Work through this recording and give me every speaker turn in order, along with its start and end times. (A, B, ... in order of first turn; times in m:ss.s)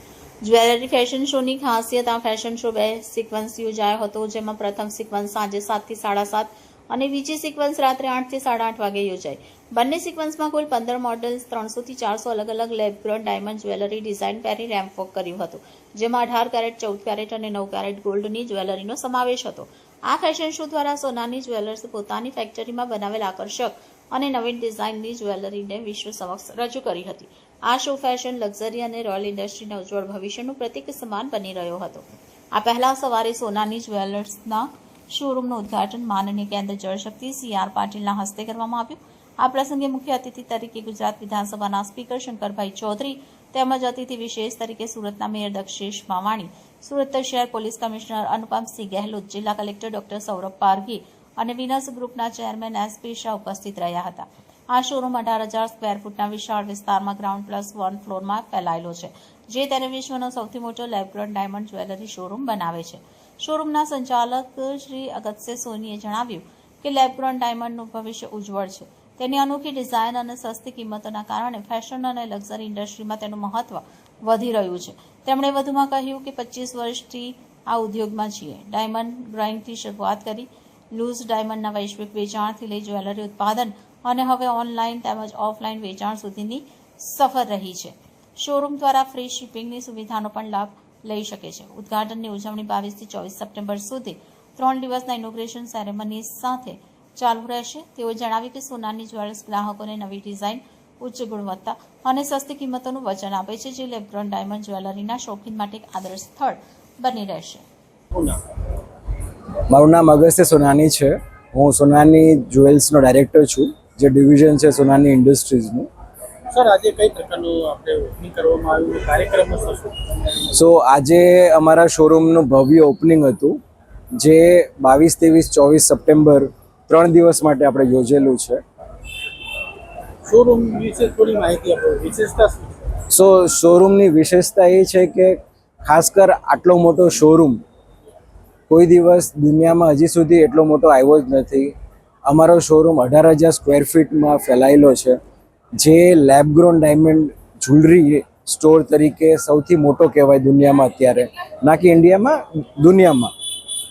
0:00.4-1:47.6 A
1:48.1-1:48.4 B
1:49.7-1:55.9 C
1:56.5-2:00.0 B
2:00.5-2:03.6 C
2:04.2-2:08.6 C
2:10.2-2:12.9 B
2:13.1-2:17.6 C
2:18.7-2:21.7 C
2:22.3-2:25.2 C
2:25.8-2:33.3 C